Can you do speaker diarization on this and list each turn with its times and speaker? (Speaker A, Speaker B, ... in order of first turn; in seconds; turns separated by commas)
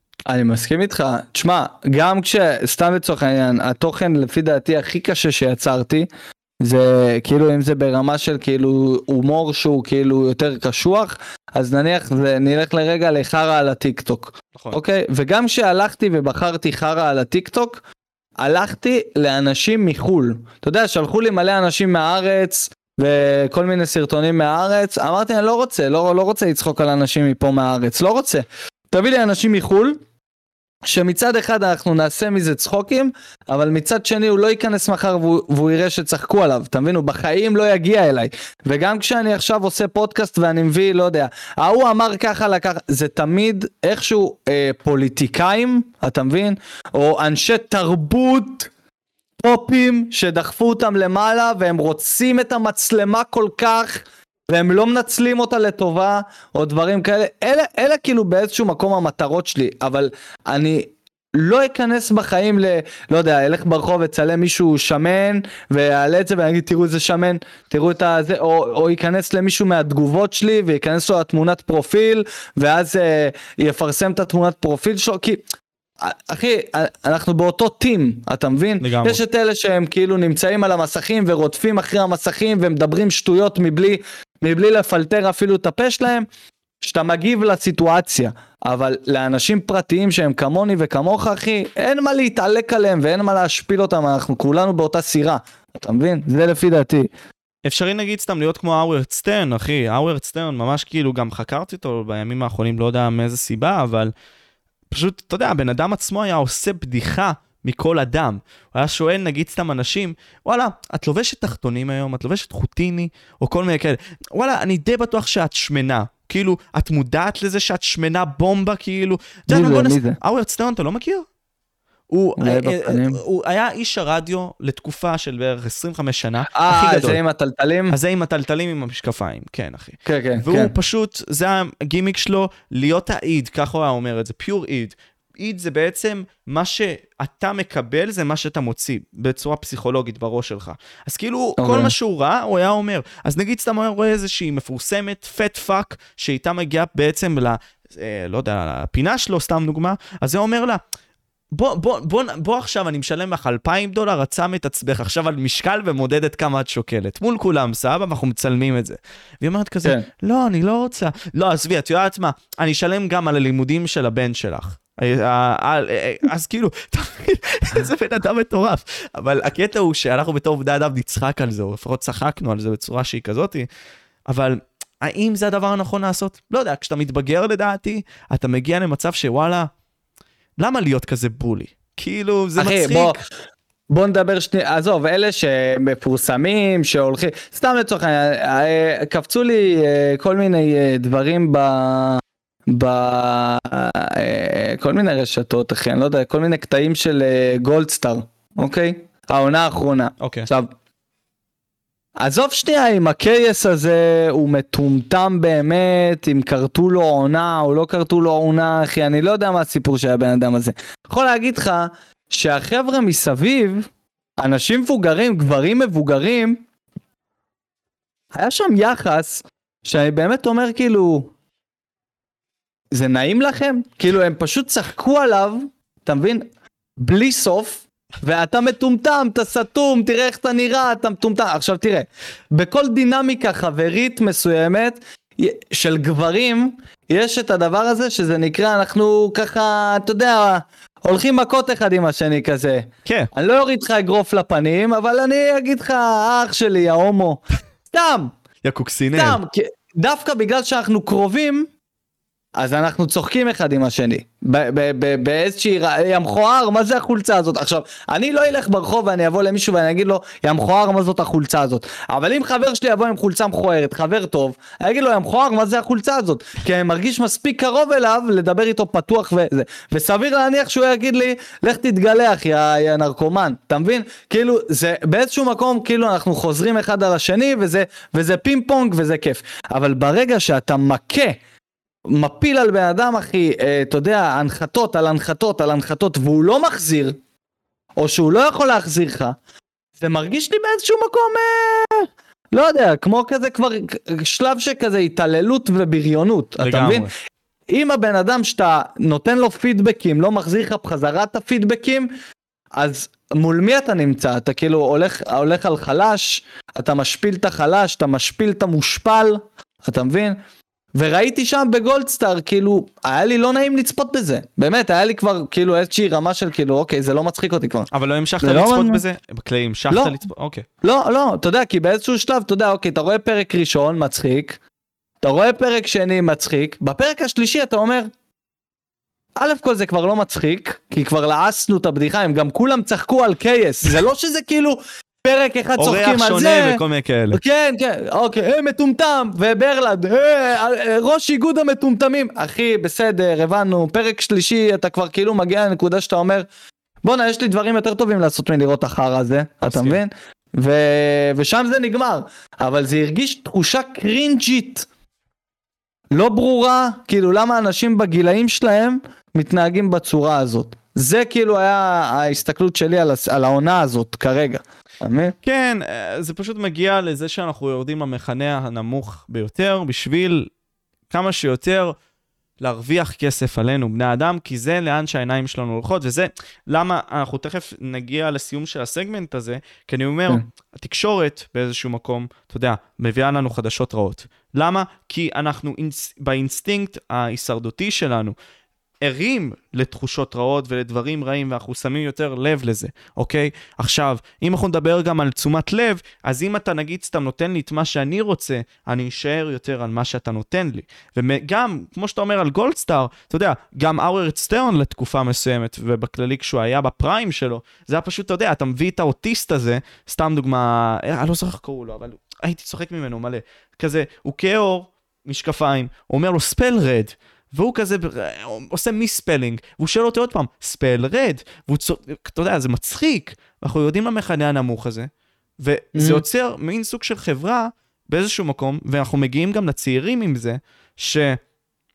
Speaker A: 0.3-6.1, Speaker A: 6.6-17.8, Speaker A: 18.4-30.0, Speaker A: 30.8-48.7, Speaker A: 49.4-75.4, Speaker A: 76.0-86.3, Speaker B: 78.8-79.2, Speaker A: 86.8-97.1, Speaker B: 97.6-104.1, Speaker B: 104.9-121.2, Speaker A: 119.5-120.2, Speaker B: 122.1-127.2, Speaker A: 122.4-123.2, Speaker A: 126.5-128.0, Speaker B: 127.9-150.8, Speaker A: 130.0-130.7, Speaker A: 141.6-141.9, Speaker B: 151.5-173.7, Speaker B: 174.3-179.7, Speaker B: 180.6-183.2, Speaker A: 182.6-183.2, Speaker A: 183.9-200.7, Speaker B: 200.2-200.5, Speaker A: 202.2-213.9, Speaker A: 214.4-216.6, Speaker A: 218.3-221.3, Speaker A: 222.9-226.4, Speaker A: 227.0-248.3, Speaker B: 248.6-249.4, Speaker A: 249.1-251.7, Speaker A: 252.6-281.4, Speaker A: 282.1-287.2, Speaker A: 287.9-289.4, Speaker A: 290.0-297.1, Speaker B: 296.6-297.1, Speaker A: 297.7-302.1, Speaker A: 302.7-310.4, Speaker A: 310.9-317.9, Speaker B: 317.9-320.6, Speaker A: 318.4-319.0, Speaker A: 320.8-324.6, Speaker A: 325.2-328.1, Speaker A: 329.4-336.8, Speaker B: 335.8-337.4, Speaker A: 337.3-346.5, Speaker A: 347.0-354.9, Speaker B: 349.6-350.0, Speaker A: 356.1-365.3, Speaker B: 365.4-370.5, Speaker B: 371.1-371.9, Speaker B: 372.6-388.3, Speaker B: 389.0-431.4, Speaker A: 425.9-426.2